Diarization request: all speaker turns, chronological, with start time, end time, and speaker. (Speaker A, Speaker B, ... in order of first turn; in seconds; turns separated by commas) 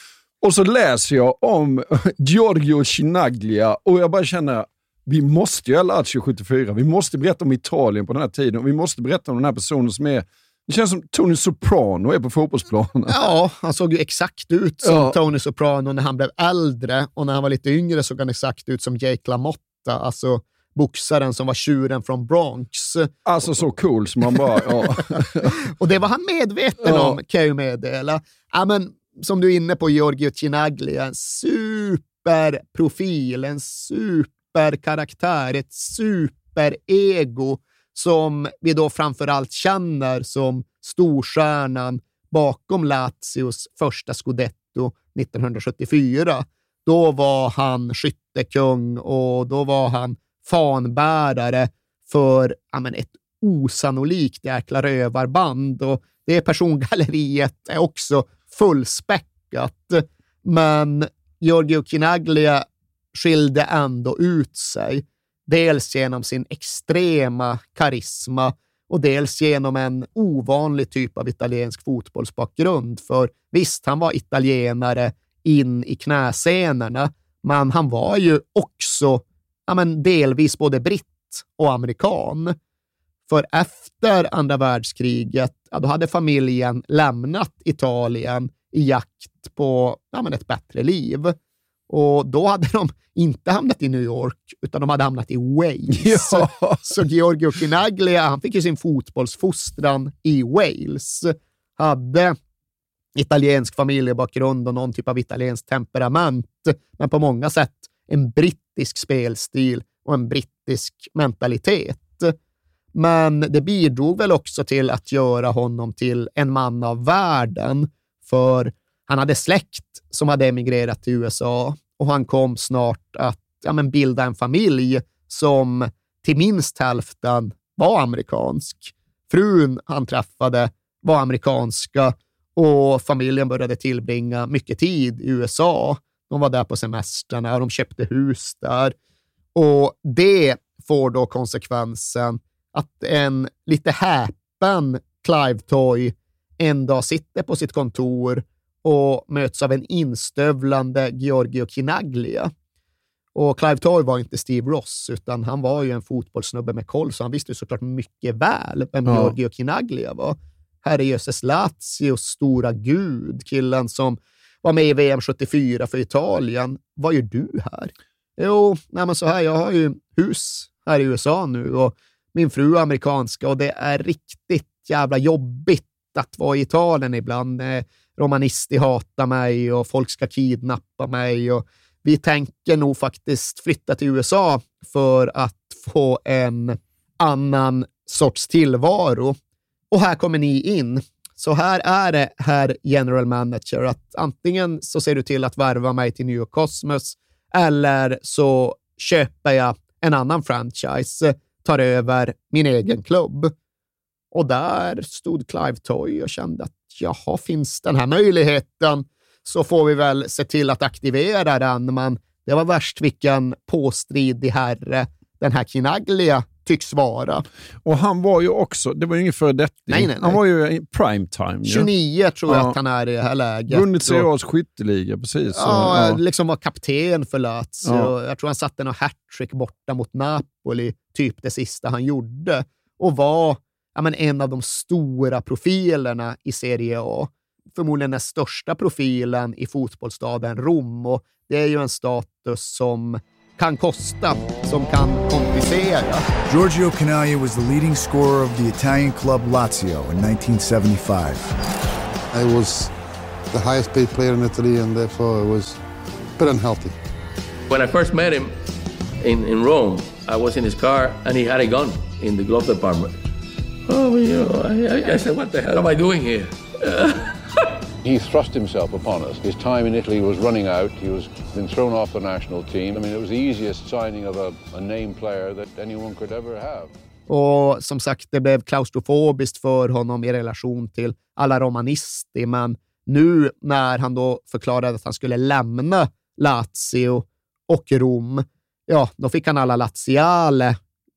Speaker A: 0.4-13.1, Speaker B: 13.1-23.6, Speaker A: 14.8-15.2, Speaker A: 23.2-25.6, Speaker B: 25.6-82.5, Speaker A: 26.8-27.2, Speaker B: 83.3-91.3, Speaker B: 91.9-102.3, Speaker A: 95.9-96.9, Speaker B: 103.1-112.3, Speaker B: 112.9-138.9, Speaker B: 139.5-152.5, Speaker B: 153.3-189.3, Speaker A: 159.1-159.3, Speaker B: 189.9-203.5, Speaker B: 204.3-217.4, Speaker A: 217.8-221.9, Speaker B: 219.9-220.4, Speaker B: 221.6-224.3, Speaker A: 222.5-222.7, Speaker A: 223.7-226.2, Speaker B: 225.5-246.2, Speaker A: 227.8-228.1, Speaker C: 246.4-251.5, Speaker D: 252.3-252.9, Speaker D: 253.5-255.7, Speaker D: 256.4-256.9, Speaker E: 257.7-258.6, Speaker E: 259.2-263.1, Speaker E: 263.9-267.2, Speaker F: 268.0-276.9, Speaker B: 277.3-290.8